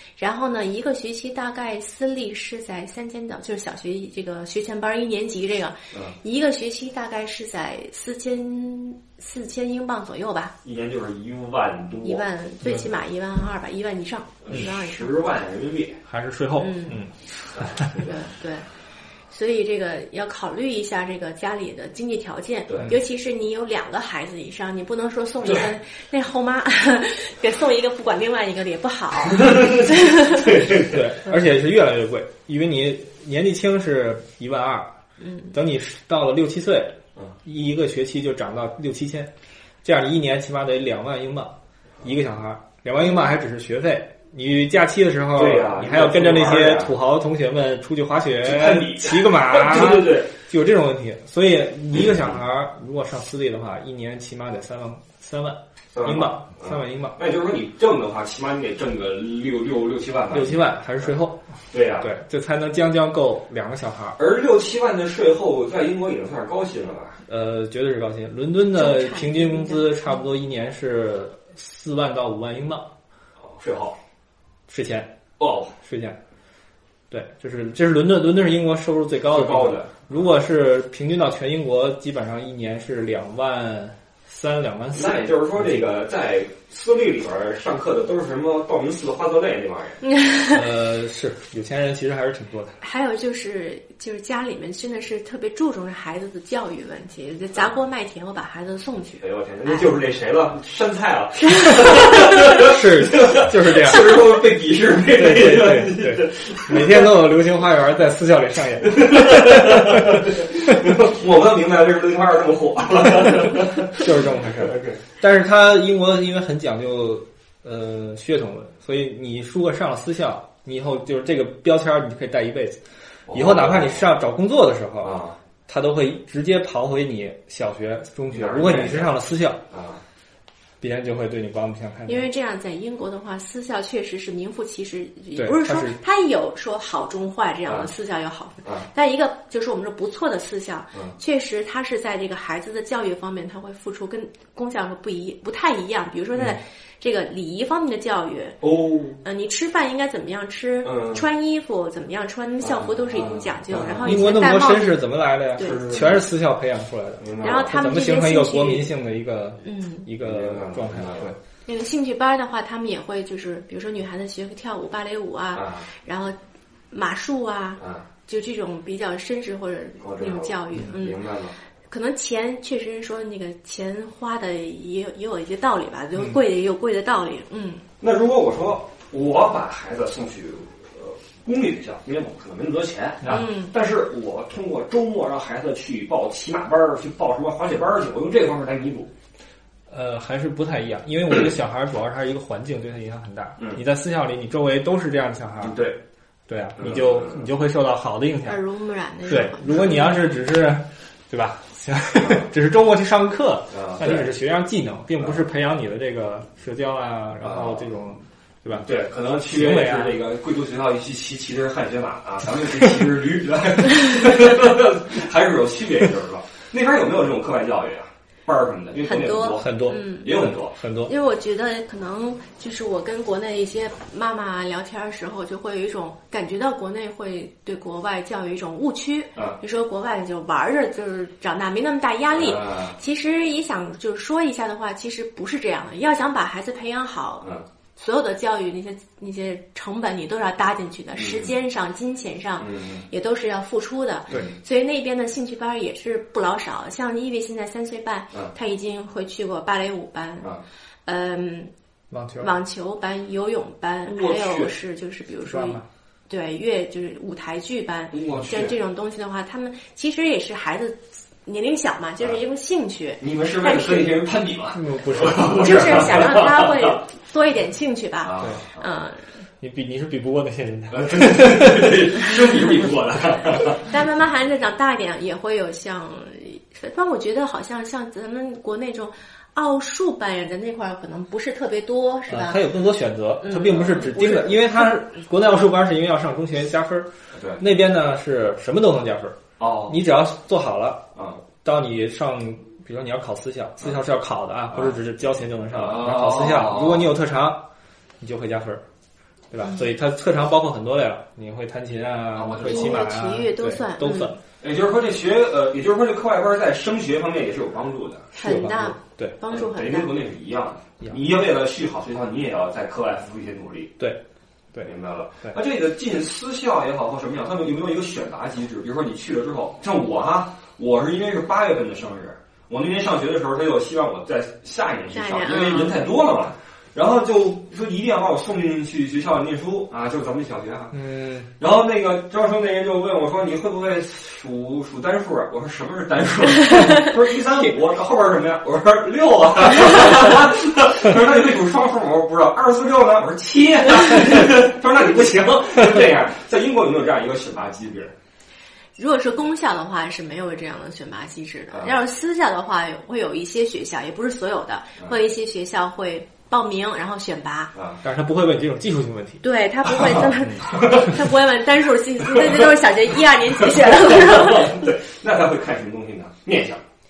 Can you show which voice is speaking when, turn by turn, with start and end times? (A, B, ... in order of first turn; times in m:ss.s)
0:00.2-0:10.6 A
0:10.6-0:12.2 B
0:12.0-0:15.1 A
0:12.6-0:12.9 C
0:14.4-0:16.0 B
0:16.1-0:17.9 C
0:16.6-0:17.0 A
0:17.5-0:18.1 B
0:17.9-0:18.7 A
0:19.3-0:30.5 A
0:22.7-0:22.9 B
0:29.3-0:31.0 B
0:30.7-0:34.9 C
0:35.2-0:35.5 A
0:35.5-0:39.3 C
0:39.8-0:57.2 C
0:45.4-0:46.9 B
0:48.4-0:50.3 B
0:55.9-1:01.1 B
1:00.3-1:04.2 C
1:01.7-1:02.1 B
1:04.2-1:07.2 B
1:07.3-1:12.9 C
1:08.7-1:10.2 A
1:13.4-1:14.0 B
1:14.7-1:15.1 C
1:15.4-1:15.7 B
1:15.8-1:16.2 C
1:17.1-1:25.9 C
1:19.3-1:20.2 B
1:24.9-1:30.0 B
1:30.1-1:30.6 A
1:30.4-1:32.8 C
1:32.8-1:39.9 A
1:39.2-1:47.2 B
1:41.5-1:42.4 A
1:42.1-1:44.4 C
1:45.0-1:50.2 C
1:48.8-1:55.0 B
1:53.4-2:09.6 C
2:03.3-2:04.0 B
2:05.0-2:05.4 B
2:08.3-2:09.1 B
2:09.7-2:10.0 B
2:10.8-2:12.3 C
2:12.1-2:28.6 A
2:15.4-2:16.0 C
2:28.6-2:29.2 B
2:29.2-2:35.0 A
2:30.8-2:31.2 B
2:32.6-2:34.3 B
2:34.0-2:41.4 C
2:35.6-2:36.3 B
2:37.2-2:37.7 B
2:37.4-2:38.9 A
2:39.6-2:40.1 A
2:40.2-2:41.4 B
2:41.6-2:46.4 A
2:45.5-2:45.9 B
2:46.9-2:51.2 A
2:47.8-2:48.0 B
2:50.0-2:51.5 B
2:51.9-2:57.9 A
2:58.0-3:09.1 B
3:03.3-3:03.7 A
3:09.9-3:15.8 C
3:15.6-3:16.0 B
3:16.5-3:18.6 C
3:16.8-3:17.5 B
3:18.4-3:20.2 A
3:19.2-3:30.2 C
3:22.2-3:22.5 B
3:23.7-3:24.3 B
3:27.4-3:27.9 B
3:28.8-3:40.8 B
3:39.0-3:40.5 A
3:39.4-3:41.1 C
3:41.0-4:10.5 A
3:52.3-3:53.0 B
4:01.2-4:01.5 B
4:02.6-4:03.0 B
4:11.0-4:11.7 A
4:12.1-4:12.5 C
4:12.4-4:24.2 A
4:14.1-4:14.8 B
4:15.4-4:15.8 C
4:18.1-4:18.8 B
4:23.2-4:27.0 B
4:24.7-4:26.2 C
4:25.5-4:29.2 A
4:28.2-4:28.8 B
4:29.6-4:32.1 C
4:30.9-4:33.9 B
4:33.8-4:42.6 A
4:42.3-4:51.1 C
4:43.4-4:44.9 A
4:47.4-4:47.6 B
4:49.6-4:50.0 B
4:51.1-4:51.4 B
4:51.6-4:57.7 C
4:55.7-4:57.1 B
4:58.2-4:58.8 C
4:59.5-5:04.4 C
5:02.4-5:03.0 B
5:02.6-5:04.4 A
5:04.6-5:08.3 B
5:08.4-5:10.1 A
5:08.4-5:09.4 C
5:09.5-5:14.0 B
5:14.8-5:31.0 B
5:25.1-5:26.0 A
5:30.9-5:31.5 C
5:31.6-5:48.1 B
5:49.0-5:57.7 A
5:57.8-5:58.0 B
5:58.0-5:59.4 C
5:59.4-6:04.9 A
6:00.6-6:01.2 B
6:02.3-6:02.7 B
6:03.6-6:06.8 B